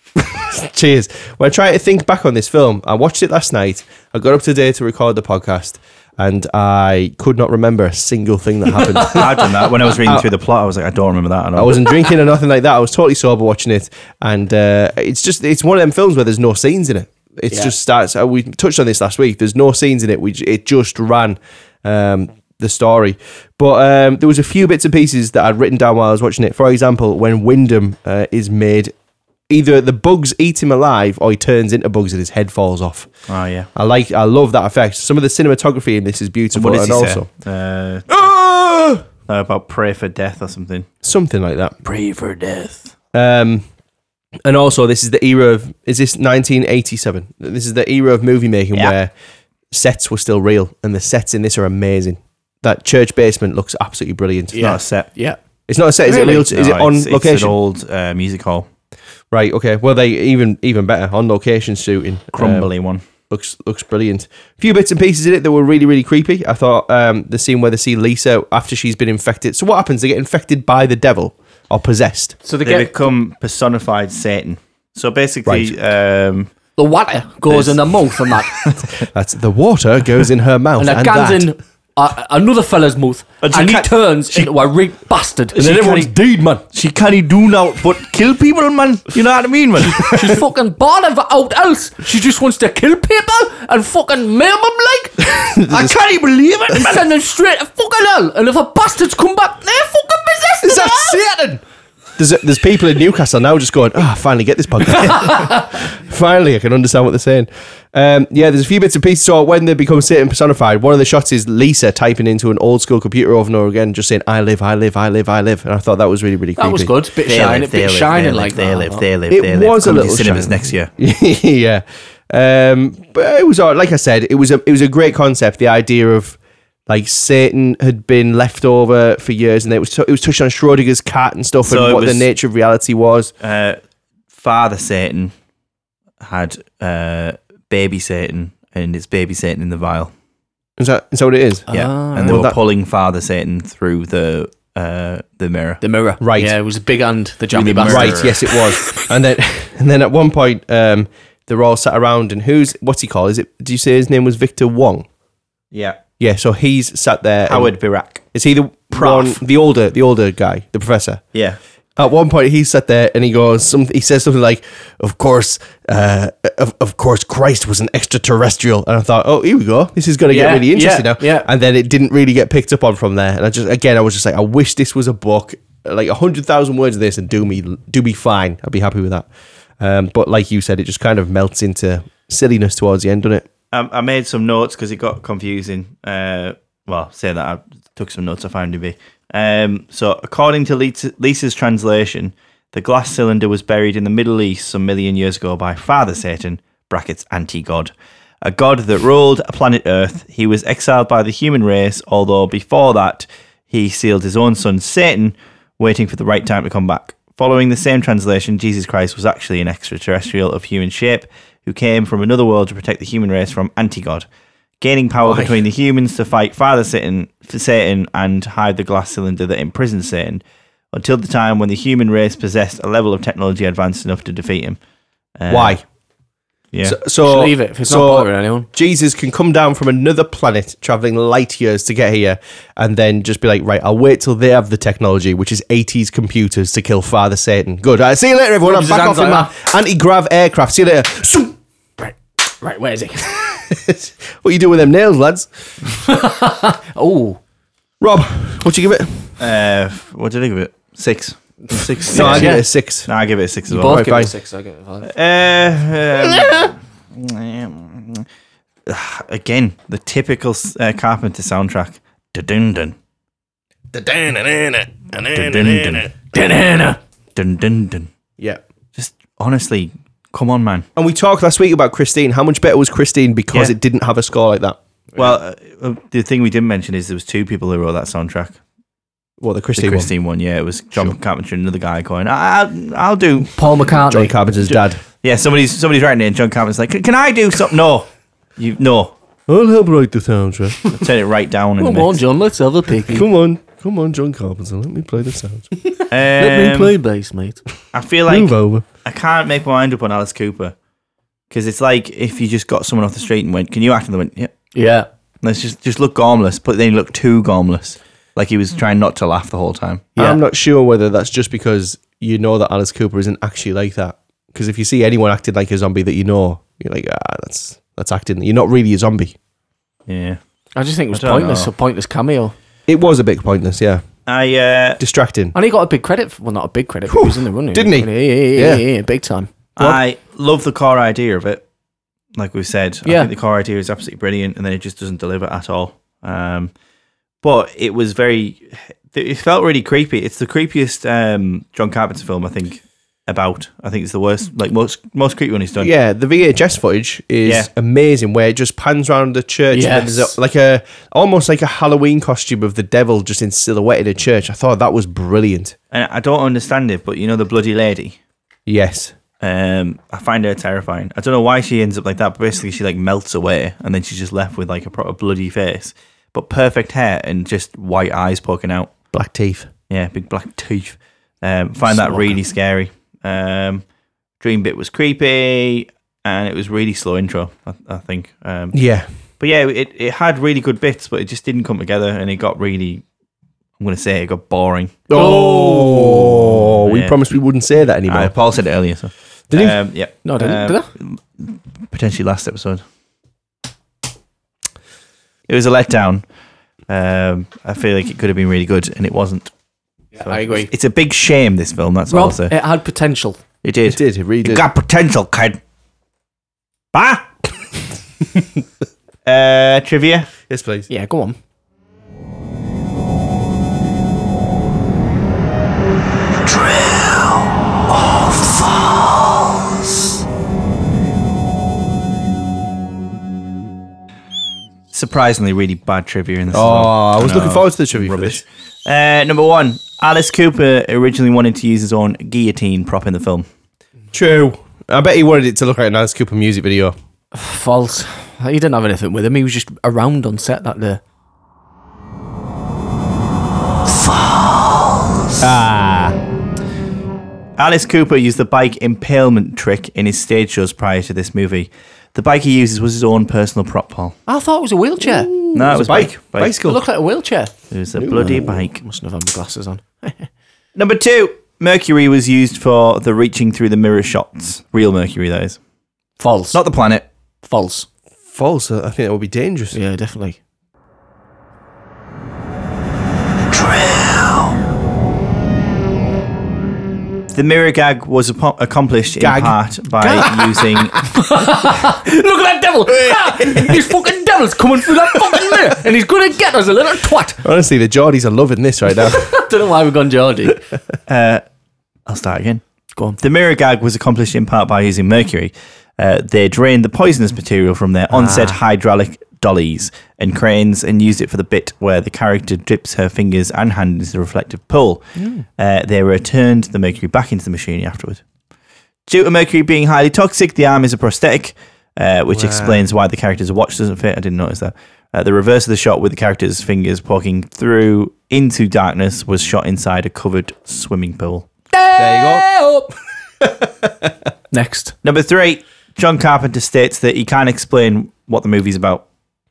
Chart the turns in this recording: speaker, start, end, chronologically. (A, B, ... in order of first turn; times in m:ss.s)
0:00.2-0:10.3 A
0:09.0-0:12.0 B
0:11.5-0:28.9 A
0:29.5-0:33.1 A
0:33.3-0:33.7 B
0:33.7-0:37.3 A
0:36.5-0:38.2 B
0:38.1-0:39.0 A
0:39.3-0:40.9 B
0:41.0-0:41.8 A
0:41.8-0:42.9 B
0:43.1-0:43.6 A
0:44.4-0:49.1 A
0:49.7-0:54.8 A
0:54.5-0:55.4 C
0:54.6-0:55.1 B
0:55.7-0:57.5 A
0:56.0-0:56.4 C
0:56.2-0:58.7 B
0:59.3-1:02.7 A
1:02.3-1:03.0 B
1:03.3-1:12.4 A
1:12.4-1:13.1 C
1:12.6-1:16.5 B
1:15.4-1:15.7 A
1:16.8-1:18.5 C
1:17.5-1:19.0 B
1:19.1-1:21.5 A
1:20.8-1:26.1 C
1:23.4-1:24.5 B
1:25.6-1:26.6 A
1:26.7-1:30.3 B
1:29.8-1:36.0 C
1:35.6-1:37.0 A
1:36.7-1:41.2 C
1:40.6-1:41.6 A
1:42.2-1:56.9 A
1:45.0-1:45.6 C
1:56.6-1:59.0 C
1:57.2-2:00.9 B
1:59.3-2:13.3 A
2:11.7-2:12.2 B
2:13.4-2:13.8 B
2:14.3-2:15.3 B
2:16.2-2:20.1 B
2:20.8-2:21.7 A
2:21.7-2:22.5 C
2:21.7-2:25.8 B
2:22.2-2:22.6 A
2:25.8-2:28.9 C
2:26.2-2:26.5 A
2:27.5-2:28.4 B
2:27.6-2:35.1 A
2:35.7-2:36.0 B
2:36.2-2:37.7 A
2:37.5-2:38.2 B
2:38.3-2:41.2 A
2:38.9-2:39.4 B
2:42.0-2:59.3 A
2:50.3-2:51.5 C
2:59.8-3:03.5 A
3:03.7-3:17.9 B
3:18.4-3:34.2 B
3:34.8-3:44.8 B
3:35.2-3:35.6 A
3:45.4-3:45.8 B
3:45.5-3:45.8 A
3:46.8-4:01.5 A
3:47.2-3:48.7 C
3:58.6-3:59.5 C
4:02.0-4:03.4 C
4:03.4-4:05.5 A
4:06.0-4:07.4 C
4:08.0-4:09.3 A
4:09.4-4:14.0 B
4:11.7-4:12.6 C
4:12.1-4:13.1 A
4:13.7-4:15.1 C
4:13.8-4:14.3 A
4:15.0-4:18.2 B
4:16.3-4:16.6 A
4:18.8-4:23.0 B
4:23.9-4:26.1 A
4:25.3-4:26.1 B
4:26.3-4:27.0 C
4:27.3-4:28.1 B
4:29.0-4:30.9 B
4:31.0-4:34.8 A
4:35.2-4:38.6 B
4:39.4-4:40.1 A
4:39.8-4:43.5 B
4:43.6-4:44.7 C
4:44.1-4:45.0 A
4:45.2-4:49.1 B
4:49.5-4:50.8 A
4:50.9-4:52.2 B
4:51.8-4:53.3 C
4:53.1-4:55.7 A
4:55.9-4:57.6 C
4:56.1-4:57.0 B
4:57.9-5:00.7 B
4:58.3-4:58.8 A
5:01.5-5:04.5 B
5:04.7-5:05.1 C
5:05.4-5:10.1 B
5:10.2-5:19.3 A
5:20.1-5:20.4 B
5:20.8-5:22.5 C
5:21.1-5:21.7 B
5:22.9-5:24.0 A
5:24.3-5:25.0 B
5:25.0-5:25.5 A
5:25.5-5:29.5 C
5:27.1-5:28.8 A
5:29.8-5:31.6 B
5:32.4-5:36.7 B
5:33.0-5:33.3 C
5:37.4-5:45.9 B
5:45.8-5:55.8 A
5:49.7-5:50.4 C
5:55.9-5:58.2 B
5:58.7-5:59.1 A
5:59.4-6:08.9 B
6:09.1-6:09.7 A
6:09.9-6:13.8 B
6:14.4-6:18.8 B
6:18.7-6:19.1 A
6:19.4-6:23.0 B
6:23.8-6:25.1 B
6:25.1-6:28.3 A
6:25.1-6:26.4 C
6:26.8-6:27.2 B
6:28.1-6:32.8 B
6:30.2-6:30.9 C
6:35.5-6:36.2 B
6:36.9-6:39.5 B
6:40.2-6:40.7 C
6:40.2-6:42.5 B
6:42.1-6:43.4 C
6:43.6-6:45.6 B
6:43.8-6:44.6 A
6:46.9-6:47.4 B
6:49.2-6:50.3 B
6:50.5-6:50.9 A
6:50.9-6:51.4 C
7:04.9-7:13.5 B
7:06.5-7:08.4 A
7:14.1-7:16.9 A
7:17.3-7:21.0 C
7:25.4-7:26.2 A
7:27.6-7:34.2 B
7:34.3-7:35.3 C
7:35.0-7:36.8 A
7:35.5-7:36.8 B
7:36.6-7:37.5 C
7:37.7-7:38.8 B
7:38.0-7:38.6 A
7:38.8-7:40.3 C
7:40.8-7:45.6 B
7:46.2-7:46.6 C
7:46.5-7:47.0 B
7:47.4-7:47.9 C
7:48.3-7:49.8 A
7:49.7-7:50.4 C
7:57.3-8:01.0 B
7:59.2-7:59.6 A
8:01.0-8:07.4 C
8:07.4-8:09.3 A
8:09.0-8:10.6 C
8:11.1-8:11.4 B
8:12.0-8:12.6 B
8:13.2-8:25.0 B
8:25.2-8:25.4 C
8:25.6-8:28.2 B
8:29.1-8:41.5 B
8:32.3-8:32.8 A
8:41.7-8:42.8 C
8:42.0-8:42.6 A
8:43.4-8:44.1 A
8:44.5-8:44.9 C
8:45.0-8:49.0 B